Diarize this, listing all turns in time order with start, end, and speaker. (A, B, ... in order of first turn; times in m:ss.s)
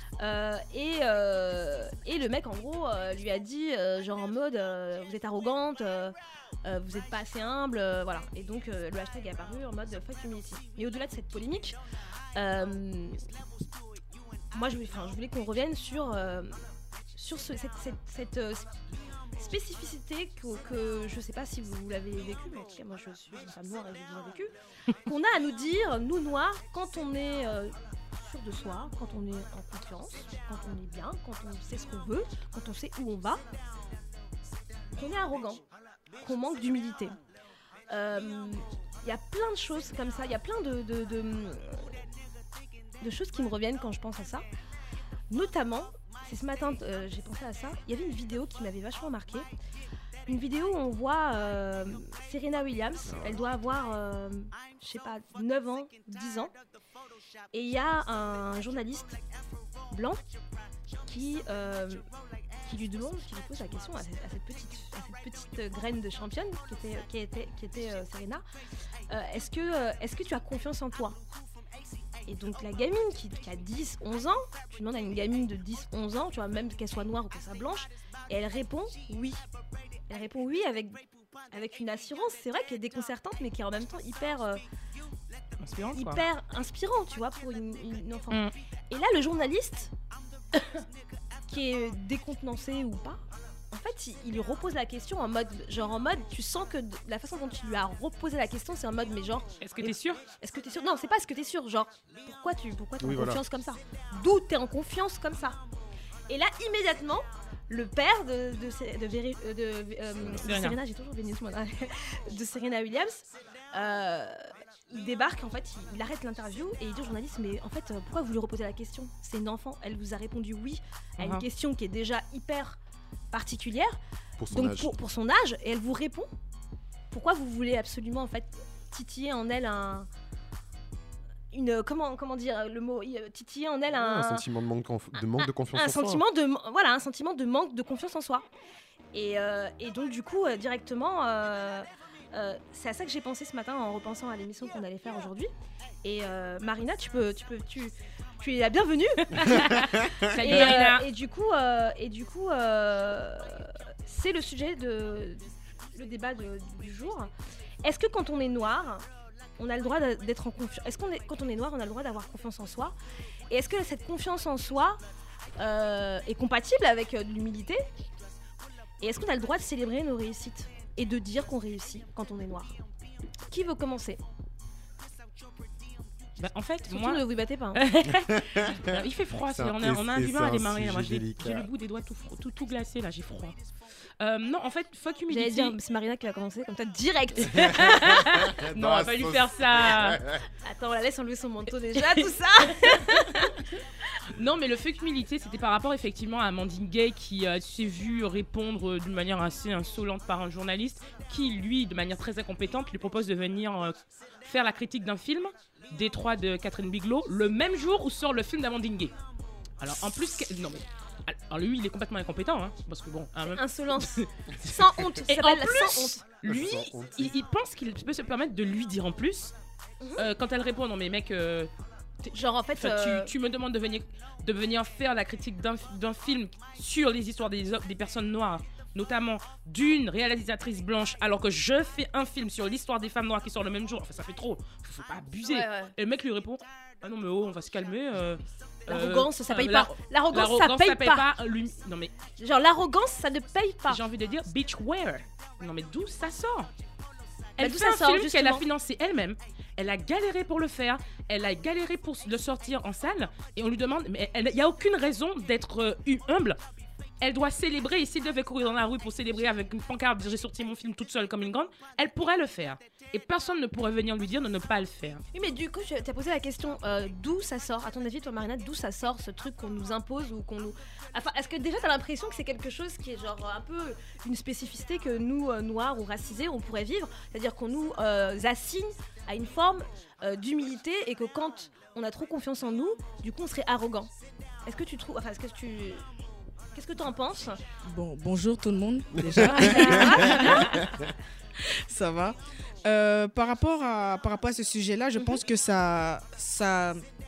0:00.2-0:06.1 A
0:06.6-0:11.8 A
0:12.3-0:13.2 A
0:14.5-0:16.6 A
0:17.2-0:18.7 A
0:19.4-0:24.5 A
0:25.0-0:33.4 A
0:34.9-0:35.6 A
0:36.2-0:37.2 A
0:37.9-0:41.9 A
0:43.0-0:44.4 A
0:45.3-0:49.5 A
0:50.3-0:56.5 A
0:53.0-0:53.4 B
0:57.5-0:59.2 A
0:59.9-1:00.2 A
1:01.0-1:02.0 A
1:02.6-1:08.4 A
1:09.1-1:11.2 A
1:12.3-1:19.4 A
1:20.1-1:24.6 A
1:25.6-1:26.2 C
1:25.9-1:29.9 A
1:31.5-1:45.6 A
1:39.6-1:40.2 C
1:43.0-1:43.4 B
1:46.3-2:02.8 A
1:50.3-1:50.8 C
2:03.3-2:04.0 A
2:04.4-2:05.0 B
2:04.5-2:06.3 A
2:07.1-2:10.1 A
2:11.5-2:14.4 A
2:13.9-2:16.2 B
2:15.4-2:18.4 A
2:19.1-2:25.5 A
2:26.0-2:29.7 A
2:29.3-2:31.0 C
2:30.4-2:37.3 A
2:37.8-2:39.0 A
2:39.6-2:42.9 A
2:43.5-2:45.0 A
2:45.6-2:47.8 A
2:49.0-2:52.8 A
2:53.5-2:54.2 A
2:56.4-3:03.6 C
2:56.9-2:57.8 A
2:58.4-3:01.7 B
3:04.2-3:05.7 C
3:05.3-3:08.1 A
3:07.6-3:10.2 C
3:08.1-3:10.4 B
3:10.6-3:13.6 A
3:12.8-3:13.2 C
3:14.3-3:29.1 C
3:29.8-3:33.6 C
3:33.4-3:36.2 A
3:34.1-3:39.5 C
3:36.4-3:37.4 B
3:40.2-3:41.7 C
3:42.2-4:02.1 C
3:42.3-3:43.3 A
3:55.5-3:55.9 A
3:58.9-4:01.2 A
4:02.4-4:04.0 A
4:03.9-4:06.7 C
4:07.6-4:08.6 A
4:07.6-4:16.6 C
4:17.2-4:25.2 C
4:25.3-4:44.1 A
4:44.6-4:46.1 A
4:46.7-4:47.6 A
4:47.8-4:50.7 D
4:49.3-4:50.7 A
4:51.8-4:57.0 D